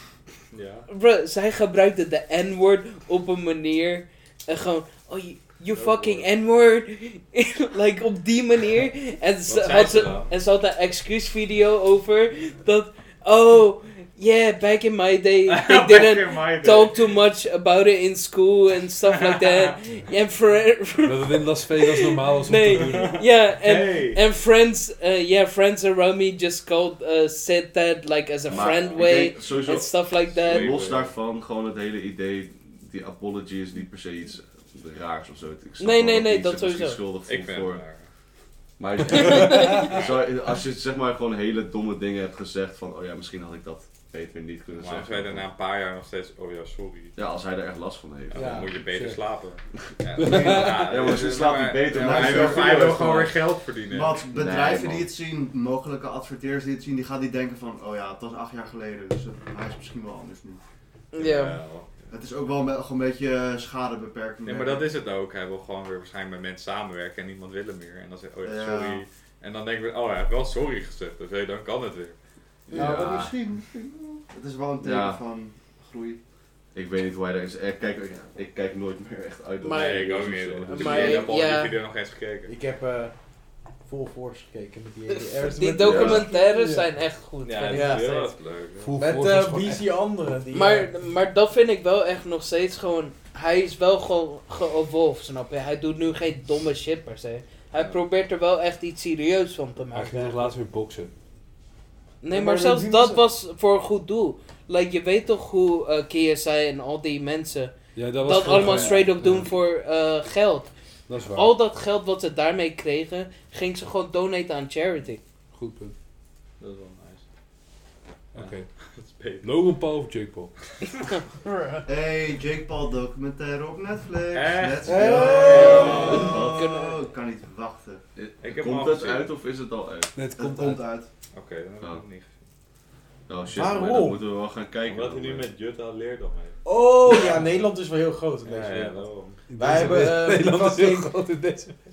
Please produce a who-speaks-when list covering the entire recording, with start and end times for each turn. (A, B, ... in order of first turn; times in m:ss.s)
0:00.5-0:00.9 A
0:00.9-0:30.8 B
0:05.7-0:06.3 A
0:09.5-0:10.3 A
0:15.5-0:17.2 A
0:19.2-0:19.7 A
0:21.0-0:23.2 C
0:22.8-0:24.2 A
0:28.5-0:37.9 D
0:28.5-0:29.1 A
0:30.4-0:31.2 A
0:35.8-0:37.0 B
0:37.3-0:38.1 A
0:38.8-0:45.4 D
0:39.1-0:39.8 B
0:39.8-0:40.1 A
0:44.8-0:47.2 A
0:47.2-0:48.7 D
0:48.3-0:54.3 A
0:48.3-0:49.2 E
0:50.2-0:50.8 C
0:50.2-0:53.2 D
0:51.9-1:00.6 F
0:54.3-0:55.1 D
1:01.1-1:01.6 B
1:01.2-1:02.1 A
1:02.1-1:05.0 F
1:04.4-1:12.2 A
1:08.4-1:09.0 F
1:12.7-1:16.2 F
1:12.7-1:13.3 D
1:12.8-1:13.2 E
1:14.8-1:15.2 D
1:16.7-1:21.3 D
1:19.6-1:21.8 B
1:19.8-1:22.5 A
1:22.5-1:23.1 E
1:23.8-1:26.9 E
1:25.6-1:28.4 B
1:25.8-1:26.3 D
1:27.4-1:29.0 A
1:27.7-1:28.1 E
1:28.8-1:30.0 C
1:29.0-1:31.0 E
1:30.5-1:40.5 B
1:39.9-1:41.1 C
1:42.2-1:50.7 B
1:42.3-1:43.2 C
1:48.0-1:49.5 C
1:48.7-1:49.0 E
1:51.1-1:51.6 C
1:51.3-1:55.2 B
1:55.5-1:55.9 C
1:56.6-1:57.2 A
1:58.3-1:58.8 C
1:58.4-1:59.5 A
1:59.4-2:00.6 C
2:01.5-2:01.8 B
2:01.9-2:08.0 F
2:04.3-2:06.4 A
2:04.8-2:06.7 E
2:05.4-2:07.0 B
2:08.2-2:10.1 D
2:08.4-2:09.3 A
2:10.2-2:10.8 C
2:10.4-2:11.1 F
2:11.3-2:12.3 A
2:13.3-2:15.5 D
2:13.5-2:14.2 E
2:14.8-2:16.6 A
2:16.6-2:21.1 E
2:18.4-2:19.5 A
2:19.5-2:21.8 C